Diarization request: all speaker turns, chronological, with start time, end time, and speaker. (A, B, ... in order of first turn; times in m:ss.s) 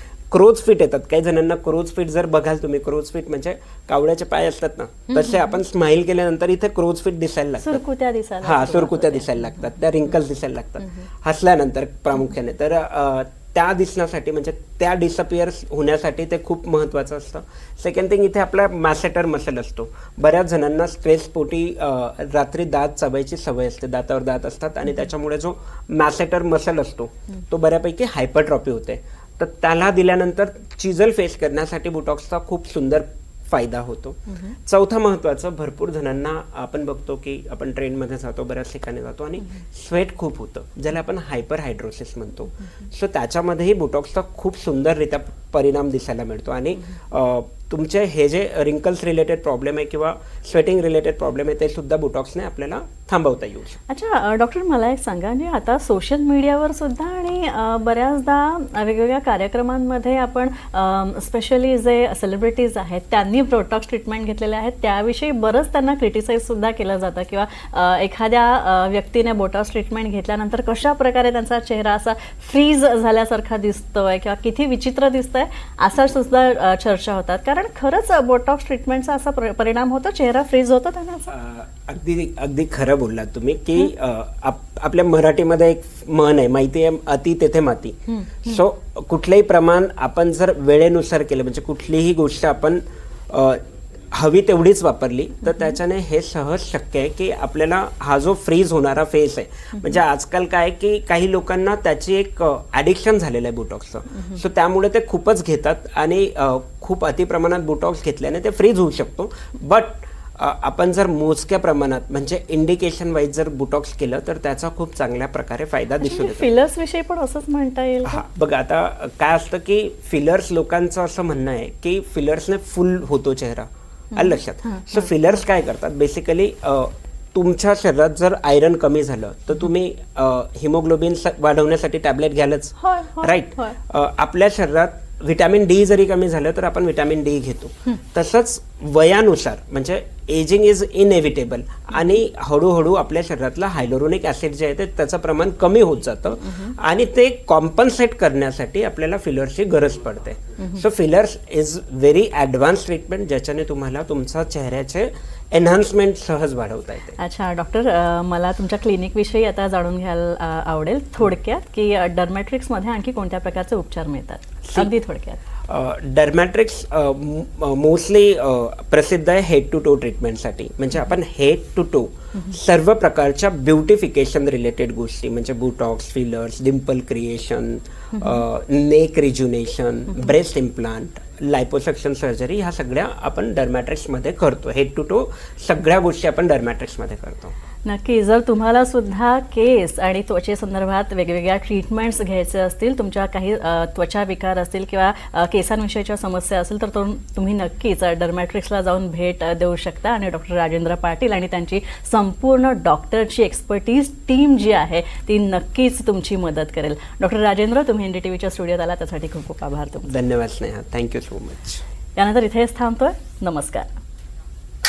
0:00.3-0:07.8 A
0:05.1-0:05.5 B
0:07.6-0:09.8 B
0:08.4-0:53.8 A
0:53.9-1:21.3 B
1:21.3-1:56.5 A
1:28.1-1:28.6 B
1:35.5-1:35.7 B
1:39.7-1:40.0 B
1:56.0-1:58.2 B
1:58.0-2:37.2 A
2:04.1-2:05.1 B
2:12.8-2:13.8 B
2:26.4-2:26.7 B
2:37.2-2:45.4 B
2:45.7-3:07.5 A
2:58.1-2:58.4 B
3:07.8-3:30.1 B
3:30.0-3:31.8 A
3:32.2-3:33.9 B